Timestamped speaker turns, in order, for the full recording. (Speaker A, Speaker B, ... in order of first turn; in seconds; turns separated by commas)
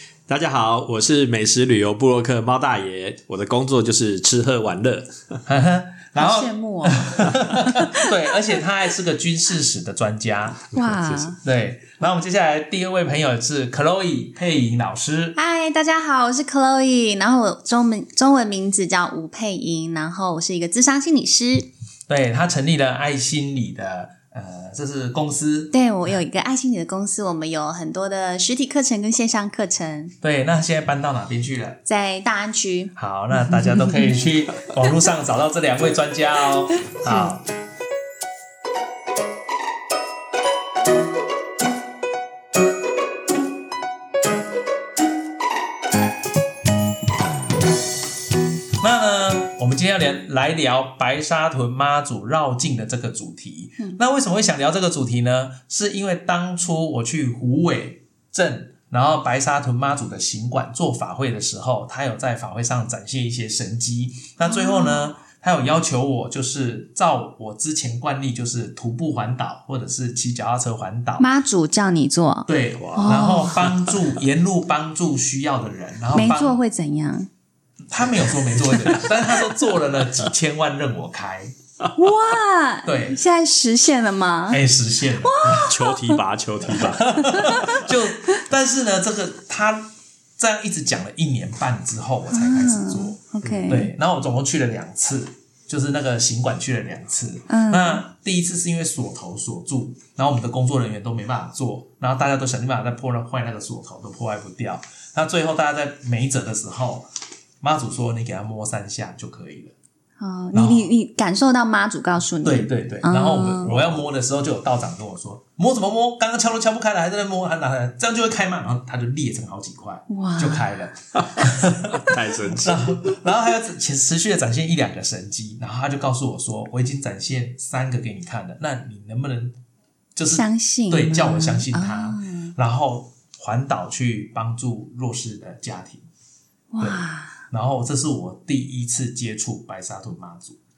Speaker A: 0.3-5.4, Speaker B: 5.5-10.6, Speaker C: 6.2-7.3, Speaker A: 10.7-11.3, Speaker C: 10.7-11.4, Speaker B: 11.4-15.4, Speaker C: 15.3-21.7, Speaker B: 22.1-25.7, Speaker C: 25.7-30.1, Speaker B: 30.2-31.8, Speaker C: 31.9-34.1, Speaker B: 33.0-37.5, Speaker C: 37.0-37.3, Speaker B: 48.8-71.3, Speaker C: 64.4-65.1, Speaker C: 71.2-73.7, Speaker B: 72.5-76.6, Speaker A: 72.8-74.0, Speaker C: 76.1-77.3, Speaker B: 77.9-81.5, Speaker A: 78.5-79.2, Speaker C: 82.0-84.6, Speaker B: 82.8-83.2, Speaker B: 84.5-85.7, Speaker C: 85.1-86.2, Speaker A: 85.4-87.9, Speaker B: 86.7-107.1, Speaker C: 87.3-87.7, Speaker C: 92.3-93.9, Speaker A: 93.4-93.8, Speaker C: 97.5-98.0, Speaker B: 107.6-109.7, Speaker C: 110.2-113.8, Speaker B: 110.5-110.9, Speaker B: 112.4-129.6, Speaker C: 120.1-120.6, Speaker A: 121.2-123.2, Speaker B: 130.1-136.0, Speaker C: 130.3-132.5, Speaker C: 136.7-137.4, Speaker B: 136.8-140.6